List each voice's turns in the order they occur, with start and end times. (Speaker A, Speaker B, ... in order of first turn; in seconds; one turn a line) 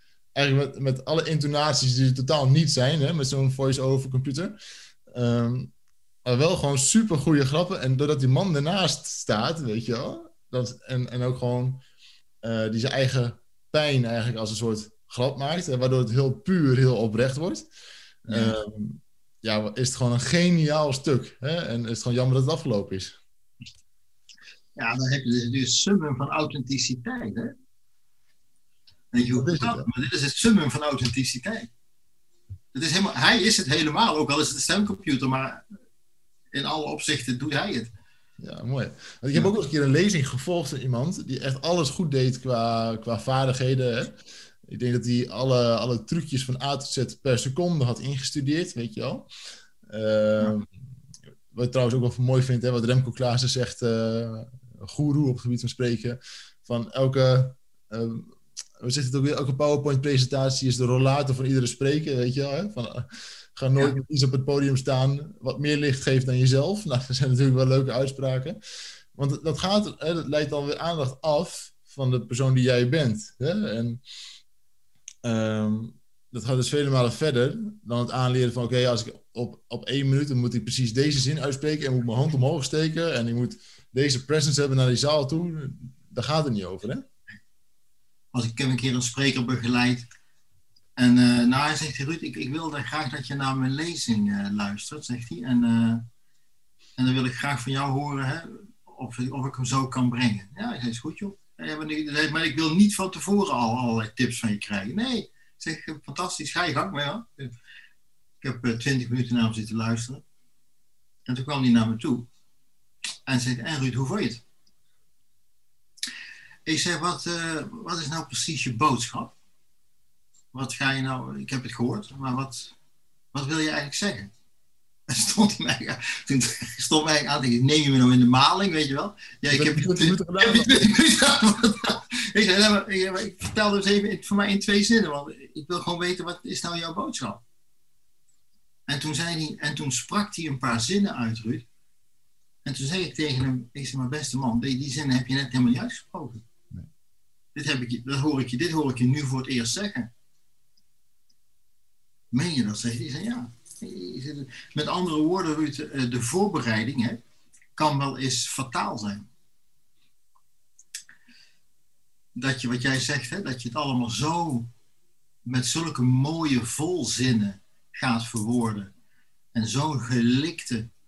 Speaker A: 0.3-4.6
Speaker A: 5.1-5.7
Speaker A: 6.2-11.8
Speaker A: 12.4-17.6
Speaker A: 18.2-23.2
Speaker B: 18.3-18.6
Speaker B: 24.8-27.5
Speaker B: 29.1-31.7
Speaker A: 29.3-29.9
Speaker B: 32.7-35.6
Speaker B: 36.5-37.9
Speaker A: 38.4-49.3
Speaker A: 49.9-50.7
Speaker A: 51.5-68.6
Speaker A: 69.1-74.0
Speaker A: 75.2-87.0
Speaker B: 88.3-90.0
Speaker B: 91.0-96.0
Speaker B: 97.0-107.5
Speaker B: 108.4-110.2
Speaker B: 111.3-112.3
Speaker B: 113.2-114.4
Speaker B: 116.7-119.3
Speaker B: 120.5-122.7
Speaker B: 123.3-124.3
Speaker B: 125.1-137.4
Speaker A: 129.5-130.8
Speaker B: 138.9-141.6
Speaker B: 142.6-146.4
Speaker B: 147.5-150.1
Speaker B: 152.3-157.2
Speaker B: 157.8-159.3
Speaker B: 162.3-164.7
Speaker B: 165.4-168.9
Speaker B: 169.5-170.9